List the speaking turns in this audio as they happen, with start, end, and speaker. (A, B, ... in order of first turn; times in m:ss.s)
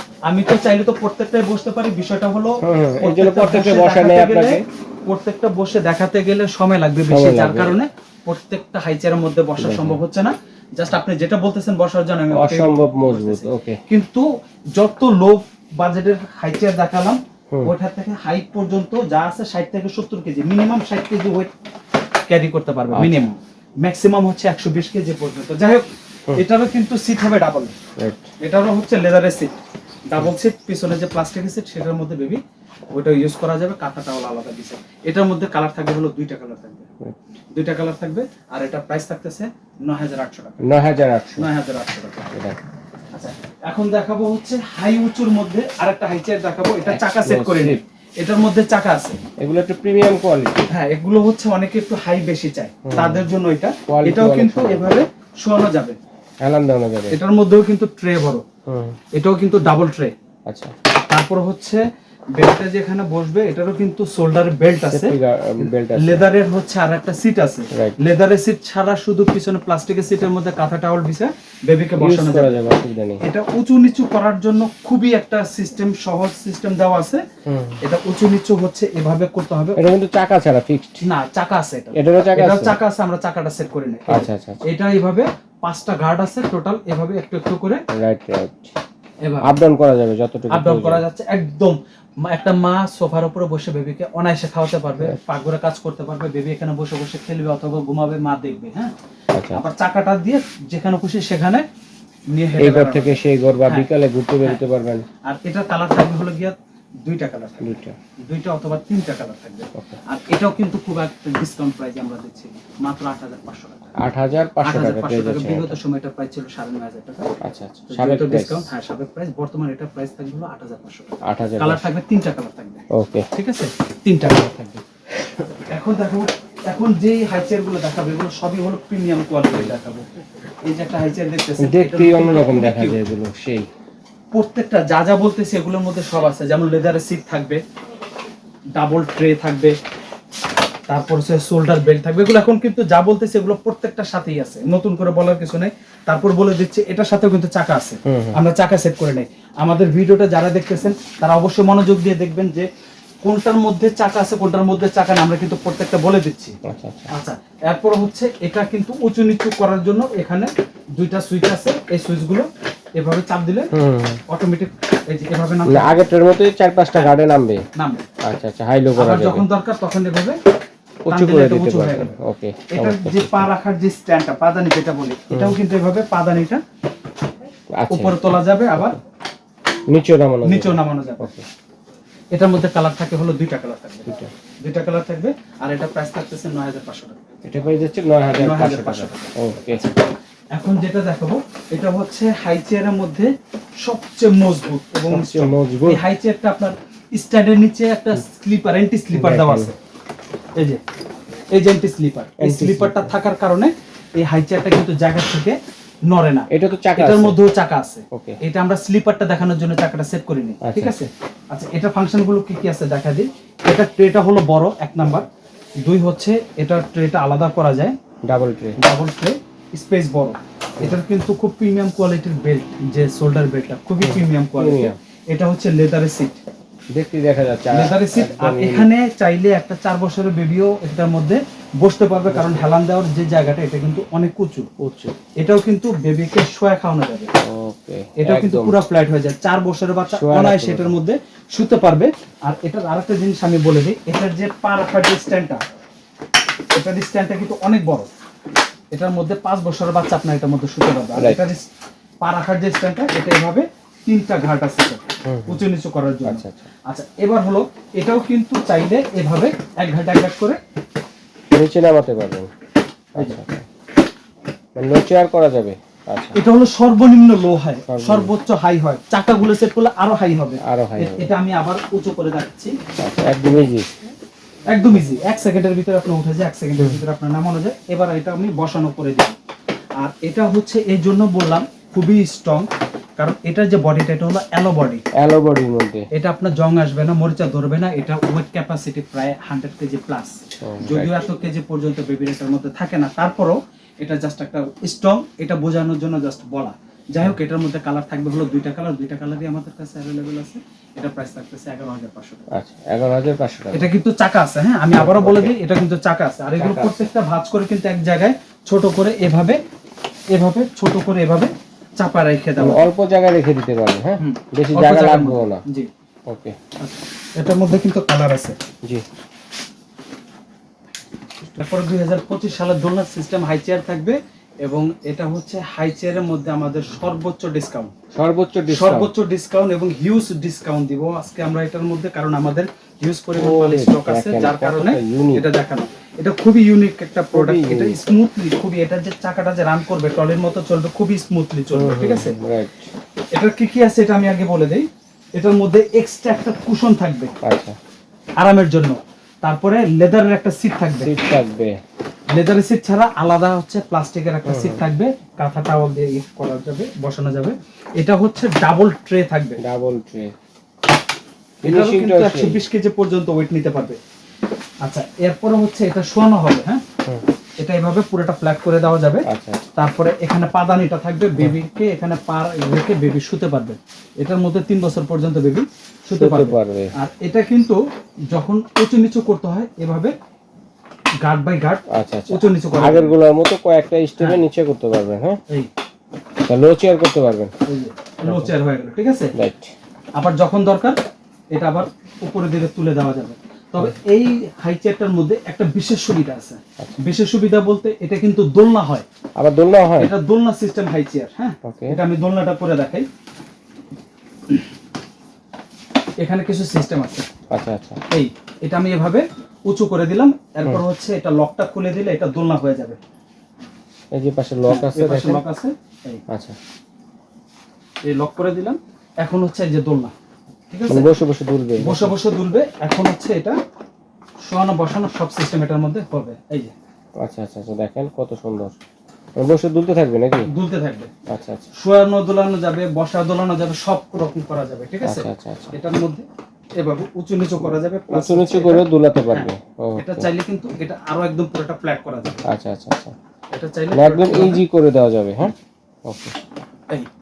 0:00.3-0:21.5 A
0:02.6-0:04.6 B
0:07.1-0:07.8 B
0:09.6-0:10.0 B
0:12.3-0:13.8 B
0:22.3-0:27.7 A
0:22.9-0:23.3 B
0:28.0-0:28.3 B
0:28.4-0:29.6 A
0:30.1-0:32.4 A
0:32.9-0:36.9 A
0:37.5-0:40.7 A
0:40.6-0:41.5 B
0:41.4-0:42.3 A
0:42.3-0:42.6 B
0:43.1-0:49.2 A
0:46.9-0:47.8 B
0:49.4-0:50.7 B
0:50.7-0:56.0 A
0:52.8-0:53.3 B
0:53.9-0:54.9 B
0:56.4-0:57.2 B
0:57.1-0:58.4 A
0:58.7-0:59.0 B
0:59.1-1:00.1 A
1:00.5-1:00.7 B
1:01.1-1:01.8 A
1:02.4-1:12.5 A
1:04.8-1:06.3 B
1:07.7-1:08.0 B
1:12.0-1:13.2 B
1:13.2-1:17.2 A
1:17.5-1:17.8 B
1:17.8-1:19.8 A
1:19.8-1:21.0 B
1:21.0-1:27.8 A
1:21.9-1:22.8 B
1:24.1-1:24.6 B
1:27.9-1:28.8 B
1:29.2-1:29.5 A
1:29.4-1:31.0 B
1:30.5-1:38.9 A
1:39.4-1:39.6 B
1:39.5-1:41.7 A
1:42.3-1:43.9 A
1:42.6-1:45.0 B
1:45.2-1:53.9 A
1:47.6-1:48.0 B
1:54.0-1:55.8 B
1:54.6-1:57.3 A
1:57.4-1:58.7 B
1:57.9-2:04.8 A
2:01.2-2:01.9 B
2:02.9-2:03.3 B
2:05.2-2:05.5 B
2:05.7-2:10.1 A
2:10.6-2:13.0 A
2:11.6-2:13.7 B
2:14.3-2:17.6 A
2:18.8-2:19.8 A
2:20.9-2:32.7 A
2:28.0-2:28.4 B
2:33.2-2:36.6 A
2:36.6-2:37.1 B
2:37.1-2:43.7 A
2:43.7-2:44.2 B
2:44.3-2:46.1 A
2:45.7-2:47.6 B
2:47.8-2:48.1 A
2:48.2-2:49.5 B
2:49.0-2:50.4 A
2:51.1-2:53.5 B
2:51.1-2:52.2 A
2:52.7-2:56.6 A
2:55.3-2:55.6 B
2:57.8-2:59.0 B
2:57.9-2:59.0 A
2:59.9-3:01.5 B
3:00.4-3:01.3 A
3:02.3-3:04.1 A
3:04.6-3:07.6 A
3:07.4-3:09.8 B
3:08.3-3:10.0 A
3:10.6-3:19.8 A
3:15.1-3:16.0 B
3:19.1-3:19.7 B
3:21.5-3:35.3 A
3:22.4-3:23.1 B
3:26.5-3:27.4 B
3:28.1-3:28.4 B
3:30.6-3:31.0 B
3:35.8-3:38.0 A
3:38.2-3:38.8 B
3:38.8-3:46.4 A
3:44.0-3:45.0 B
3:46.9-3:48.9 B
3:47.7-3:54.7 A
3:52.3-3:52.6 B
3:54.8-3:55.2 B
3:55.4-3:57.3 A
3:57.4-3:58.8 B
3:58.2-4:05.6 A
4:00.1-4:01.0 B
4:06.8-4:08.1 A
4:08.9-4:11.7 A
4:11.2-4:11.4 B
4:12.2-4:20.6 A
4:15.2-4:15.7 B
4:16.2-4:16.7 B
4:21.5-4:22.5 B
4:23.1-4:23.7 B
4:24.8-4:26.4 B
4:26.4-4:32.8 A
4:27.9-4:28.3 B
4:30.6-4:31.3 B
4:33.0-4:33.9 B
4:34.7-4:39.4 A
4:40.0-4:45.0 A
4:45.1-4:46.1 B
4:46.1-5:02.5 A
4:50.6-4:51.3 B
5:02.5-5:03.9 B
5:03.7-5:09.6 A
5:04.9-5:05.5 B
5:06.6-5:07.1 B
5:10.3-5:12.9 A
5:12.6-5:15.6 B
5:14.2-5:15.9 A
5:16.3-5:16.6 B
5:16.8-5:18.6 A
5:21.6-5:27.9 A
5:28.1-5:29.1 B
5:28.7-5:42.4 A
5:33.4-5:35.5 B
5:37.3-5:38.0 B
5:41.7-5:42.9 B
5:43.4-5:47.3 A
5:47.4-5:47.8 B
5:48.4-5:51.2 A
5:51.0-5:51.8 B
5:52.3-5:59.6 A
5:54.5-5:54.8 B
5:59.6-6:00.3 B
6:01.6-6:04.0 A
6:01.6-6:02.6 B
6:04.8-6:06.8 A
6:07.6-6:20.2 A
6:09.3-6:09.6 B
6:16.2-6:16.9 B
6:21.2-6:23.2 A
6:21.9-6:25.4 B
6:26.4-6:27.5 B
6:27.7-6:29.3 A
6:28.2-6:28.5 B
6:29.3-6:29.7 B
6:30.2-6:31.0 A
6:31.5-6:39.1 A
6:39.4-6:40.1 B
6:40.0-6:43.1 A
6:41.6-6:42.0 B
6:46.2-6:47.3 A
6:47.5-6:48.0 B
6:48.1-6:53.0 A
6:54.1-6:55.5 B
6:54.7-6:56.2 A
6:56.3-6:56.6 B
6:58.0-7:00.1 A
7:00.7-7:01.1 A
7:00.9-7:02.1 B
7:01.8-7:03.6 A
7:04.5-7:06.7 A
7:07.2-7:08.7 B
7:09.4-7:10.5 B
7:10.5-7:11.1 A
7:11.3-7:11.7 B
7:11.8-7:16.3 A
7:15.0-7:15.8 B
7:16.8-7:22.4 A
7:17.6-7:20.3 B
7:22.5-7:23.2 B
7:23.5-7:24.6 A
7:23.9-7:25.6 B
7:26.1-7:26.4 B